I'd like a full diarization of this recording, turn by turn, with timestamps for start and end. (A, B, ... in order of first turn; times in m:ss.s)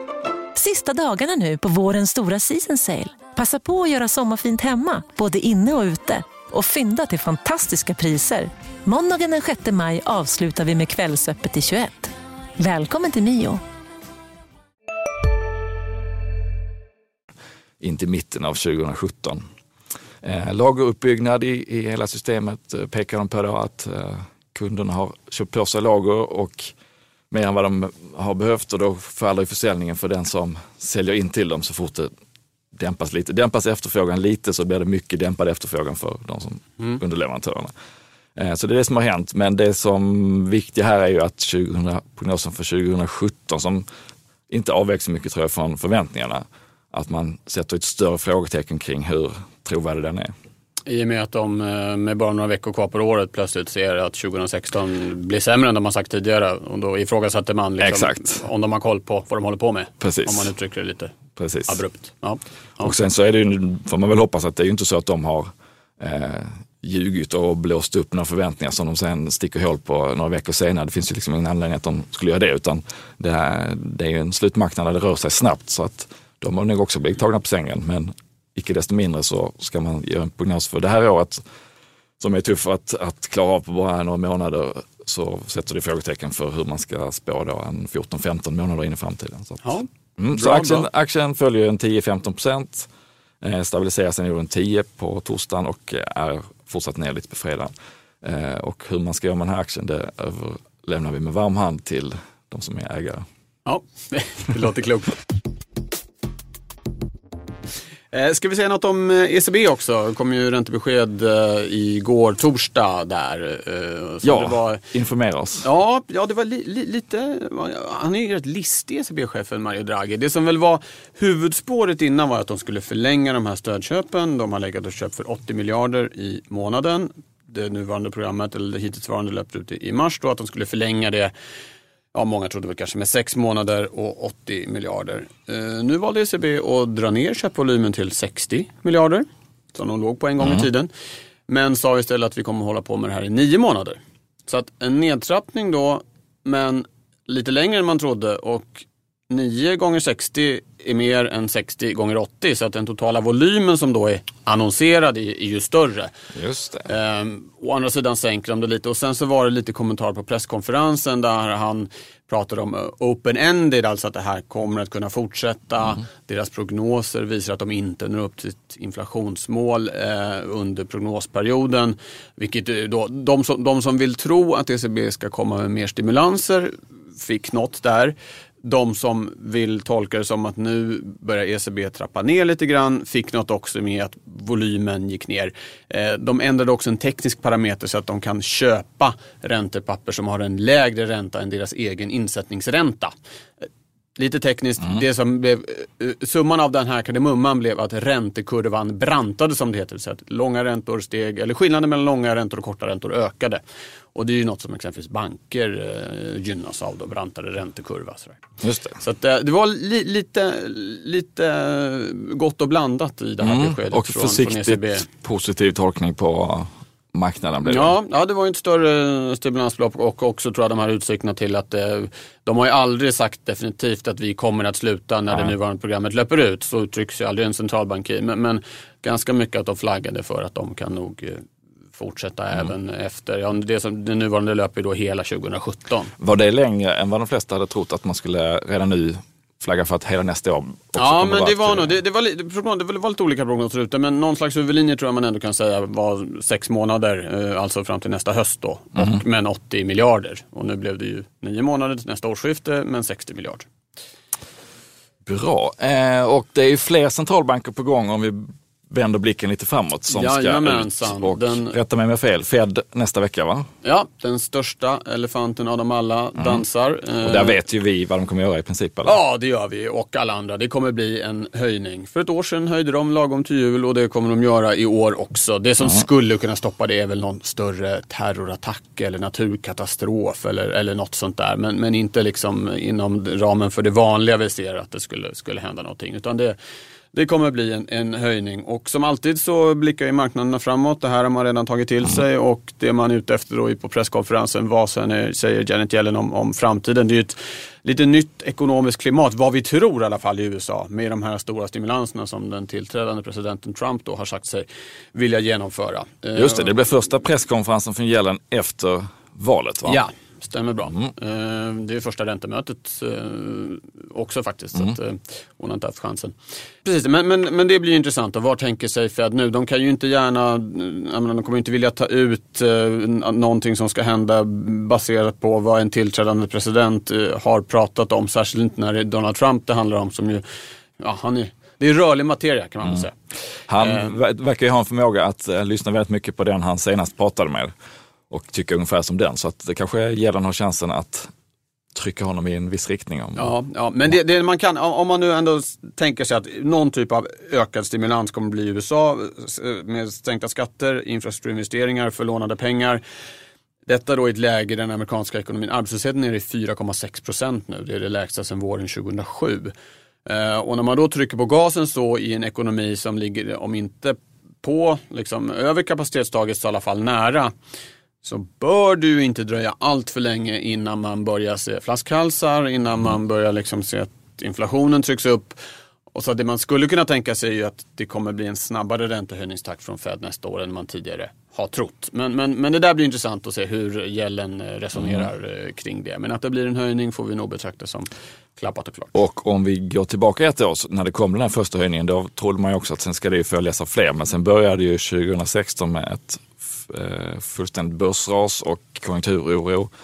0:00.6-0:13.6 A
0:17.8-0:19.4 B
0:20.2-0:26.7 B
0:27.3-0:32.1 B
0:32.8-0:37.7 B
0:38.4-0:43.9 B
0:44.5-0:50.3 B
0:50.9-1:01.1 C
0:57.8-0:58.4 B
1:00.0-1:00.5 B
1:01.4-1:01.8 B
1:01.7-1:02.9 C
1:02.8-1:05.5 B
1:06.0-1:21.4 B
1:22.2-1:32.9 B
1:29.6-1:30.9 C
1:33.4-1:37.7 B
1:38.2-1:43.2 B
1:43.6-1:45.2 C
1:48.1-1:54.8 C
1:54.2-1:55.7 B
1:55.6-2:11.3 C
2:12.1-2:20.9 C
2:20.4-2:20.7 B
2:21.5-2:36.1 C
2:36.3-2:36.9 B
2:36.9-3:13.1 C
3:14.2-3:23.6 C
3:24.1-3:28.4 C
3:28.6-3:29.0 B
3:29.0-3:35.0 C
3:33.4-3:37.9 B
3:37.6-3:51.4 C
3:51.9-3:56.1 C
3:56.2-4:01.9 B
4:01.0-4:13.7 C
4:15.2-4:23.7 B
4:20.1-4:21.8 C
4:23.8-4:27.6 C
4:26.4-4:26.6 B
4:27.2-4:29.2 B
4:29.0-4:46.6 C
4:47.1-5:06.7 C
5:06.4-5:10.0 B
5:09.9-5:30.4 C
5:10.9-5:11.1 B
5:31.0-5:33.1 C
5:33.7-5:37.7 B
5:33.8-5:34.1 C
5:38.3-5:41.3 B
5:41.9-5:43.5 B
5:43.4-5:53.0 C
5:53.9-5:59.7 C
6:00.2-6:07.5 C
6:08.2-6:15.6 C
6:16.1-6:29.1 C
6:25.0-6:25.2 B
6:29.1-6:39.9 B